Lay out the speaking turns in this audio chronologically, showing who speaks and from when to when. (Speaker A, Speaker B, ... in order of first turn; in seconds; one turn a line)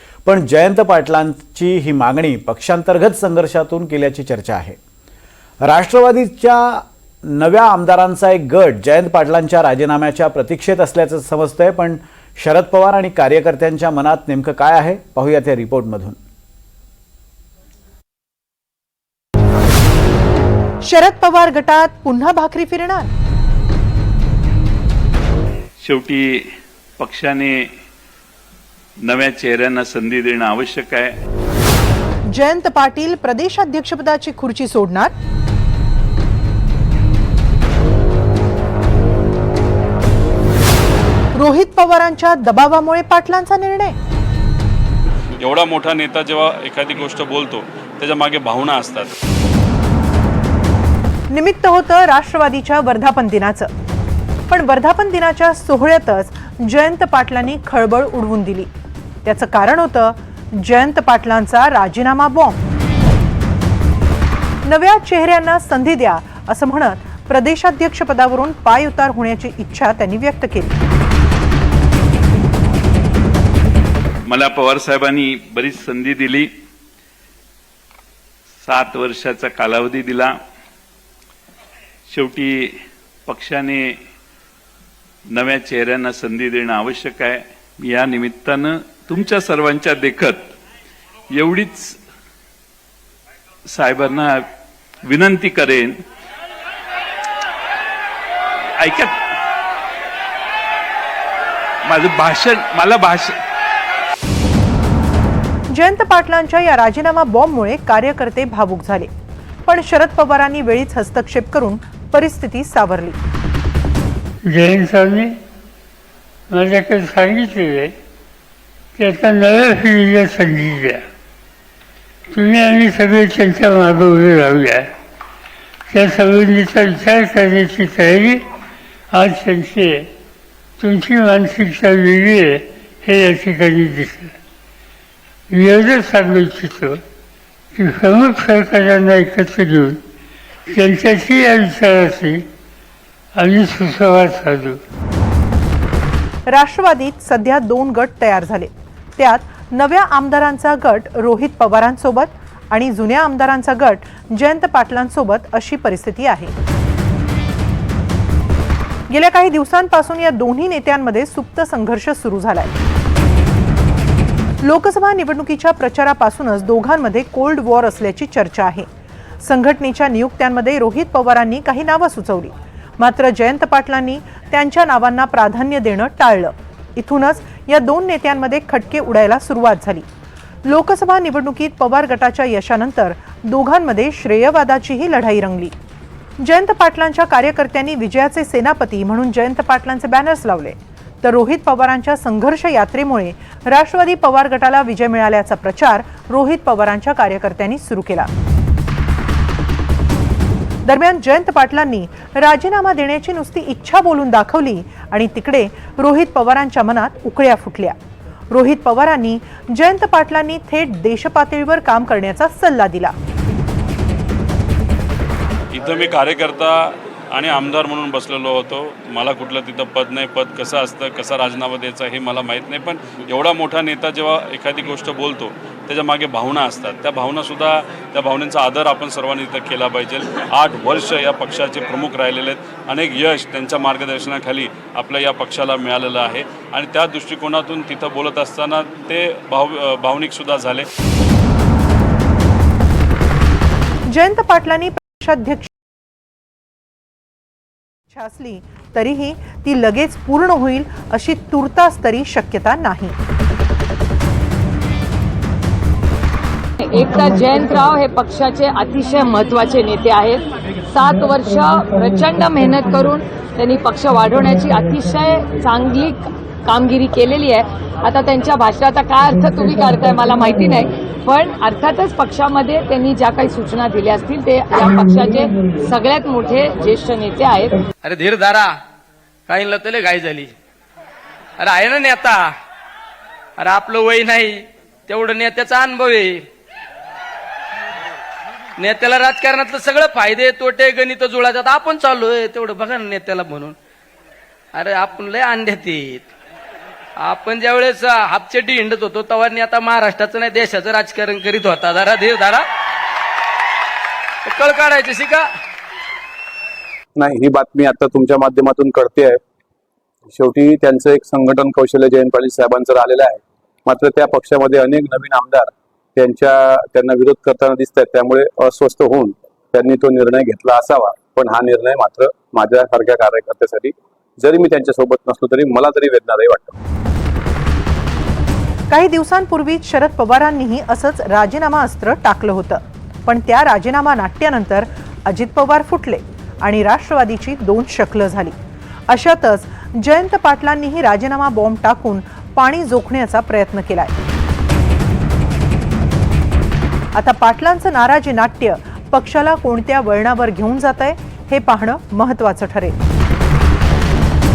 Speaker A: 0.2-4.8
Speaker A: 5.6-16.2
Speaker B: 20.8-23.1
Speaker C: 25.8-26.4
Speaker C: 27.0-27.7
Speaker C: 29.0-31.1
Speaker B: 32.3-35.1
Speaker B: 41.3-44.0
Speaker D: 45.4-49.1
Speaker B: 51.3-53.7
Speaker B: 54.5-58.7
Speaker B: 59.2-62.6
Speaker B: 64.6-70.7
Speaker C: 74.2-76.5
Speaker C: 78.6-80.3
Speaker C: 82.1-82.7
Speaker C: 83.2-83.9
Speaker C: 85.3-90.5
Speaker C: 91.3-92.0
Speaker C: 93.7-94.4
Speaker C: 95.0-96.0
Speaker C: 98.8-99.2
Speaker C: 101.8-103.3
Speaker B: 105.7-109.1
Speaker B: 109.7-113.2
Speaker E: 114.5-115.3
Speaker E: 116.5-117.9
Speaker E: 119.0-121.0
Speaker E: 122.3-124.9
Speaker E: 125.9-128.4
Speaker E: 129.1-130.1
Speaker E: 130.8-134.3
Speaker E: 135.5-137.0
Speaker E: 137.7-140.0
Speaker E: 140.7-142.4
Speaker E: 143.3-144.8
Speaker B: 146.5-156.5
Speaker B: 159.1-162.7
Speaker B: 164.6-168.9
Speaker B: 169.4-180.1
Speaker B: 180.7-185.7
Speaker B: 186.4-198.3
Speaker B: 200.8-208.0
Speaker B: 208.5-213.1
Speaker D: 215.7-240.9
Speaker B: 244.1-245.7
Speaker B: 248.1-253.2
Speaker F: 256.8-277.8
Speaker G: 278.0-278.8
Speaker G: 279.5-280.5
Speaker G: 281.6-282.6
Speaker G: 283.6-286.4
Speaker G: 288.8-293.8
Speaker G: 294.7-296.3
Speaker G: 297.2-302.7
Speaker G: 304.4-305.5
Speaker H: 307.2-309.4
Speaker H: 310.3-326.8
Speaker B: 328.9-338.6
Speaker B: 339.1-344.1
Speaker B: 347.1-352.9